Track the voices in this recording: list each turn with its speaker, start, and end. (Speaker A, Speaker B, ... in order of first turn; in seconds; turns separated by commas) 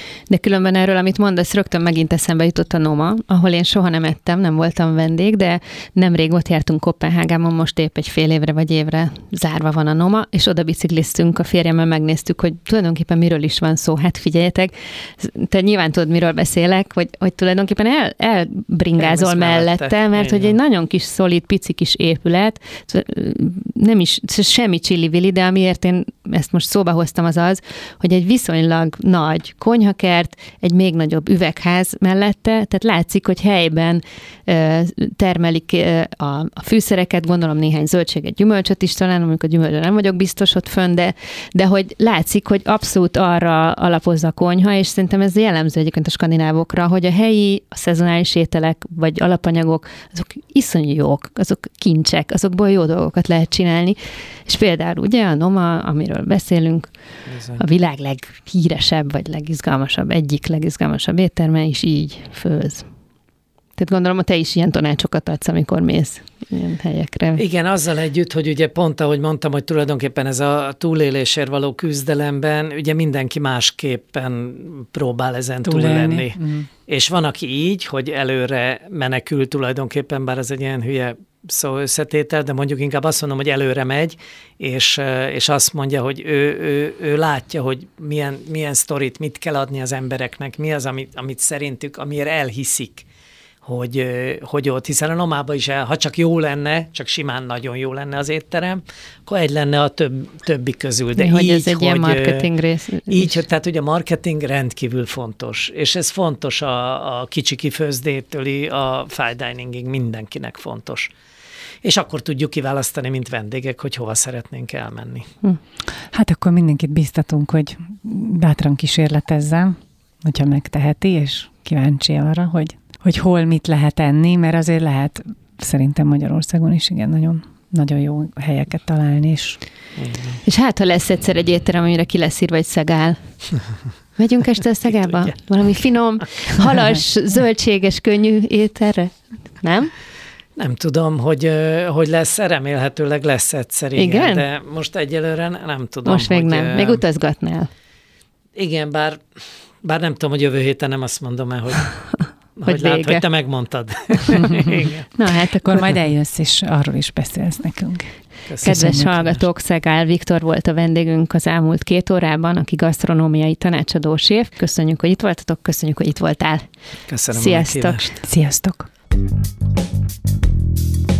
Speaker A: 0.3-56.9, Speaker B: 19.0-20.6, Speaker B: 57.3-57.6, Speaker A: 57.6-62.9, Speaker A: 63.8-67.4, Speaker B: 67.3-93.0, Speaker C: 75.6-76.7, Speaker B: 93.6-102.5, Speaker A: 101.2-103.4, Speaker B: 103.1-111.1, Speaker B: 111.8-115.3, Speaker C: 116.1-129.6, Speaker B: 130.0-130.4, Speaker A: 130.4-133.2, Speaker A: 134.2-139.9, Speaker B: 134.9-135.3, Speaker B: 140.6-147.0, Speaker A: 143.9-144.4, Speaker A: 146.1-147.7, Speaker B: 148.5-149.2, Speaker B: 149.8-151.9, Speaker A: 152.1-153.2, Speaker B: 152.6-155.1, Speaker A: 155.1-155.9, Speaker C: 155.6-159.1, Speaker B: 158.5-159.4, Speaker A: 158.6-166.7, Speaker B: 167.1-168.1, Speaker A: 167.3-168.2, Speaker C: 168.2-168.9